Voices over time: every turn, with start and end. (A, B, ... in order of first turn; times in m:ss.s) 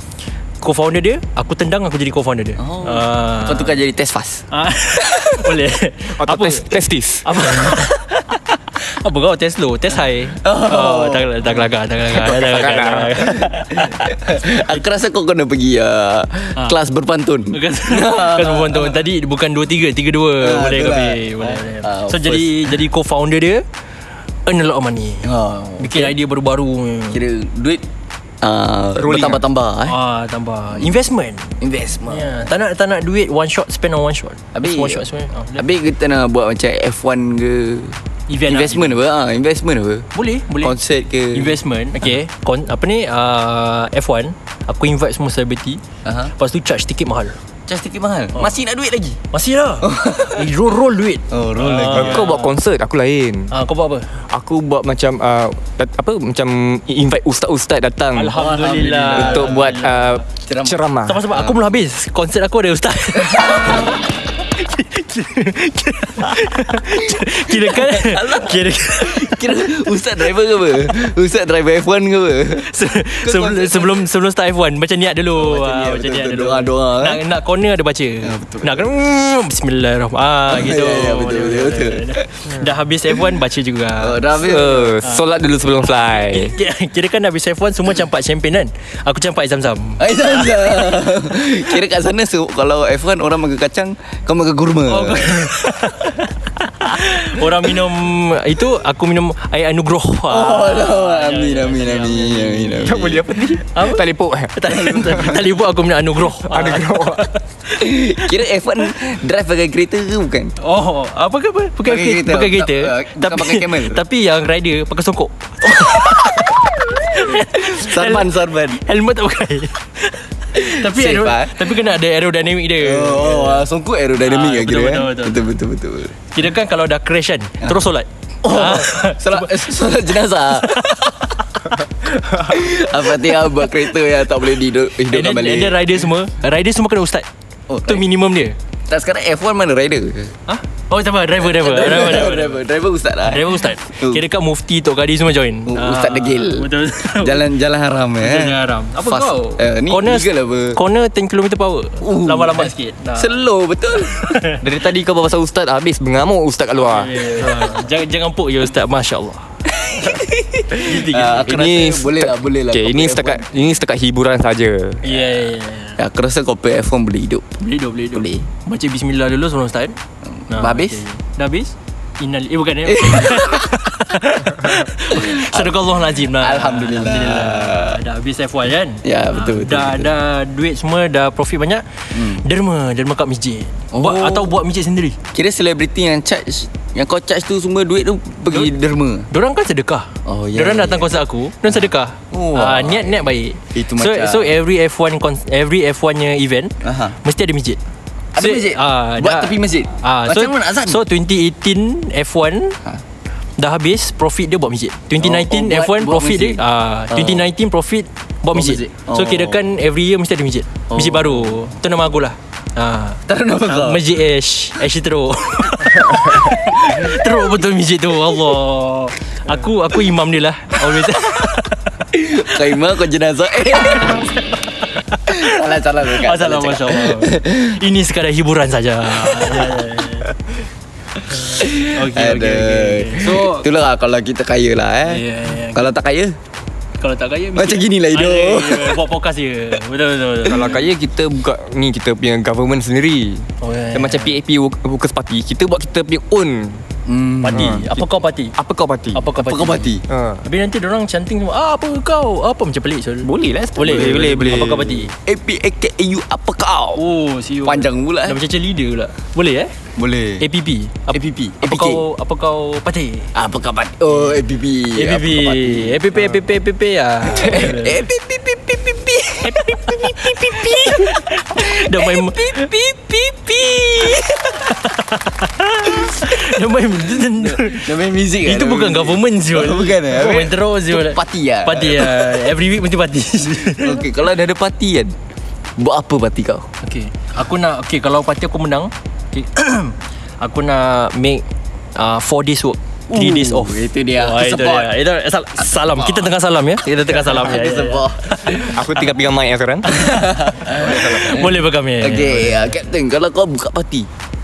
0:00.6-0:03.8 A
0:02.6-0:04.4 B
0:04.5-0:06.7 A
0:05.0-0:05.5 B
0:06.2-0:07.5 C
0:07.2-0:14.1 A
0:10.4-0:11.6 B
0:12.2-0:13.2 C
0:13.2-0:19.0 B
0:17.5-0:23.6 A
0:20.4-0:22.8 B
0:24.4-0:27.2 A
0:25.2-0:26.2 B
0:27.1-0:27.8 B
0:28.4-0:30.0 B
0:29.0-0:29.4 C
0:29.9-0:35.6 A
0:31.6-0:32.5 B
0:34.5-0:40.1 B
0:38.3-0:39.0 A
0:40.1-0:40.8 A
0:40.6-0:41.6 B
0:41.3-0:47.4 A
0:46.0-0:46.3 B
0:47.7-0:49.2 B
0:49.3-0:52.6 A
0:49.8-0:50.5 B
0:51.3-0:52.3 B
0:51.9-0:53.5 C
0:53.5-0:54.1 A
0:54.3-0:58.3 C
0:58.1-1:00.2 A
0:58.3-0:59.8 B
0:59.1-1:01.3 C
1:00.4-1:00.8 B
1:01.0-1:09.7 A
1:01.3-1:01.6 B
1:03.2-1:03.9 B
1:06.7-1:12.7 B
1:12.6-1:24.2 A
1:13.2-1:14.1 B
1:15.3-1:17.2 B
1:18.2-1:18.9 B
1:20.5-1:22.3 B
1:24.0-1:25.0 B
1:24.4-1:26.6 C
1:26.1-1:31.1 A
1:30.0-1:35.5 B
1:34.9-1:48.3 A
1:40.3-1:43.2 B
1:42.8-1:45.3 C
1:44.9-1:45.2 B
1:46.4-1:47.3 C
1:47.7-1:50.5 B
1:50.6-2:03.6 A
1:51.8-1:54.0 B
1:57.2-1:58.8 B
2:00.5-2:01.8 B
2:02.8-2:06.2 B
2:04.2-2:05.5 A
2:06.3-2:09.7 A
2:08.4-2:11.3 B
2:10.6-2:11.3 A
2:12.0-2:16.0 B
2:15.1-2:17.3 A
2:17.7-2:18.0 B
2:17.8-2:18.6 A
2:18.9-2:20.3 B
2:20.5-2:22.6 A
2:21.4-2:24.2 B
2:23.2-2:27.4 A
2:25.7-2:30.8 B
2:28.2-2:33.4 A
2:32.0-2:34.4 B
2:34.0-2:34.6 A
2:34.6-2:37.4 C
2:36.7-2:41.5 A
2:39.8-2:43.4 B
2:41.4-2:45.0 C
2:45.0-2:46.0 A
2:46.0-2:47.6 B
2:47.6-2:50.0 A
2:48.1-2:48.4 B
2:50.3-2:51.0 B
2:50.5-3:05.2 A
2:52.8-2:53.8 B
2:55.1-2:58.0 B
2:59.0-3:00.1 B
3:02.1-3:02.4 B
3:03.9-3:04.6 B
3:05.3-3:09.3 B
3:09.3-3:17.8 A
3:10.2-3:11.1 B
3:12.3-3:14.6 B
3:16.8-3:17.1 B
3:18.3-3:21.0 B
3:18.4-3:22.8 A
3:23.6-3:41.9 A
3:25.2-3:27.5 B
3:28.5-3:29.7 B
3:30.9-3:31.7 B
3:33.3-3:34.0 B
3:42.1-3:44.3 B
3:43.9-3:50.3 A
3:45.3-3:47.8 B
3:49.2-3:49.8 B
3:51.3-3:53.7 A
3:51.5-3:56.3 B
3:55.0-3:55.9 A
3:57.0-4:00.8 A
3:57.5-3:59.0 B
4:00.4-4:06.8 C
4:03.6-4:04.4 A
4:07.0-4:07.8 B
4:07.4-4:08.6 A
4:07.5-4:09.2 C
4:09.1-4:09.9 A
4:09.4-4:10.0 B
4:10.1-4:10.4 C
4:10.4-4:15.1 A
4:13.2-4:15.0 C
4:13.8-4:17.0 B
4:17.0-4:19.7 A
4:17.6-4:18.4 B
4:20.0-4:20.4 B
4:20.4-4:23.3 A
4:21.1-4:22.0 B
4:23.3-4:26.0 B
4:24.1-4:24.4 A
4:24.9-4:28.0 A
4:27.3-4:32.8 B
4:29.4-4:44.1 A
4:34.0-4:34.3 B
4:37.2-4:42.4 B
4:43.6-4:45.1 B
4:45.8-4:46.7 B
4:46.8-4:58.8 A
4:53.1-4:54.9 B
4:55.8-4:56.3 B
4:56.9-4:58.8 B
4:58.7-5:00.0 C
4:59.8-5:02.8 A
4:59.9-5:04.1 B